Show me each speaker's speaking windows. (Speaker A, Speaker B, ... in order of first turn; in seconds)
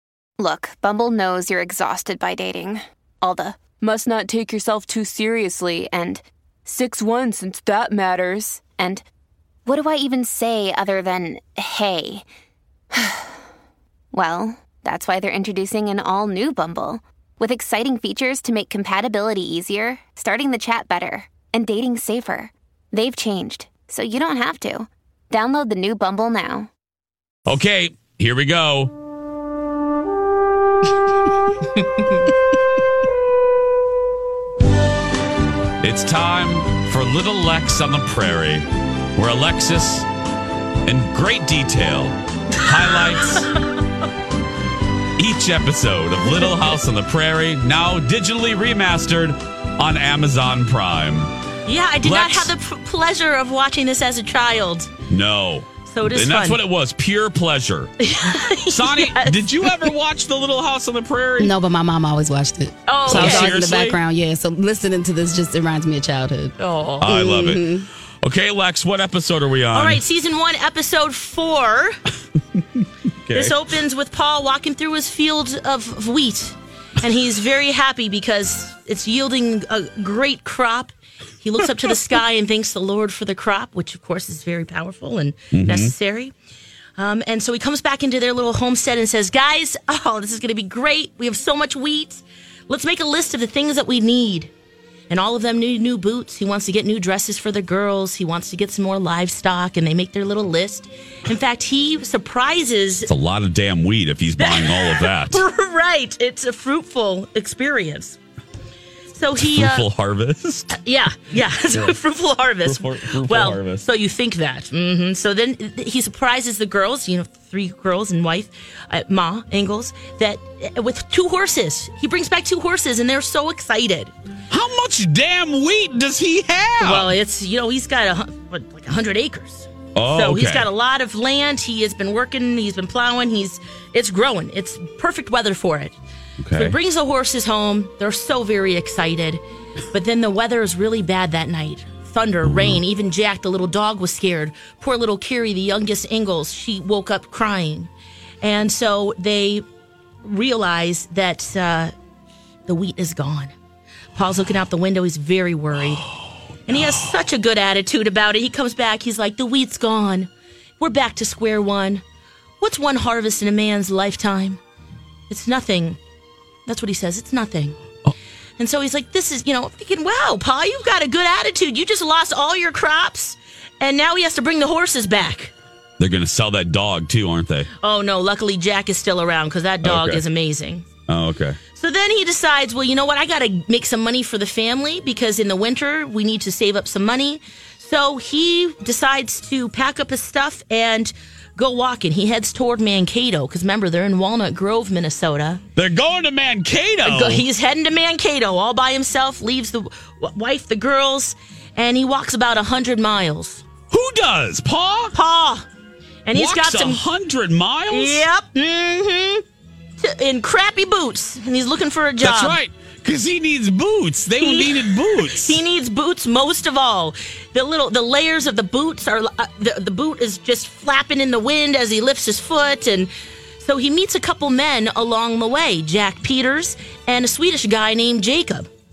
Speaker A: 0.4-9.0, 9.7-12.3, 12.9-13.4, 14.1-26.7
Speaker B: 27.5-28.9, 35.8-40.1, 40.8-43.5, 45.2-51.3, 52.0-52.5, 55.1-57.9, 58.7-64.0, 67.0-70.0, 72.8-73.6, 85.5-85.9, 103.1-105.4, 109.4-110.8, 111.7-112.0, 112.6-113.8, 124.5-127.1, 129.9-130.7, 136.4-136.8, 142.4-142.8, 156.7-157.1, 176.0-177.7, 179.8-180.2, 181.1-181.6, 195.8-197.4, 203.9-205.2, 206.3-208.2, 212.2-215.6
Speaker C: 43.2-43.8, 51.7-54.9, 55.9-56.6, 58.0-59.9, 62.9-63.6, 66.6-67.1, 69.7-72.0, 73.3-86.3, 87.0-94.5, 95.1-103.1, 104.4-108.2, 109.1-109.9, 110.7-124.1, 126.8-135.9, 136.6-147.9, 148.4-149.6, 150.2-151.9, 152.7-153.5, 154.2-156.1, 156.7-162.0, 162.6-164.6, 165.3-166.0, 166.7-167.8, 168.6-175.5, 177.8-180.9, 181.7-195.6, 197.0-203.6, 205.1-205.7, 206.2-207.1, 207.9-209.4, 210.0-212.6, 214.4-228.7
Speaker D: 61.4-66.5, 67.1-67.8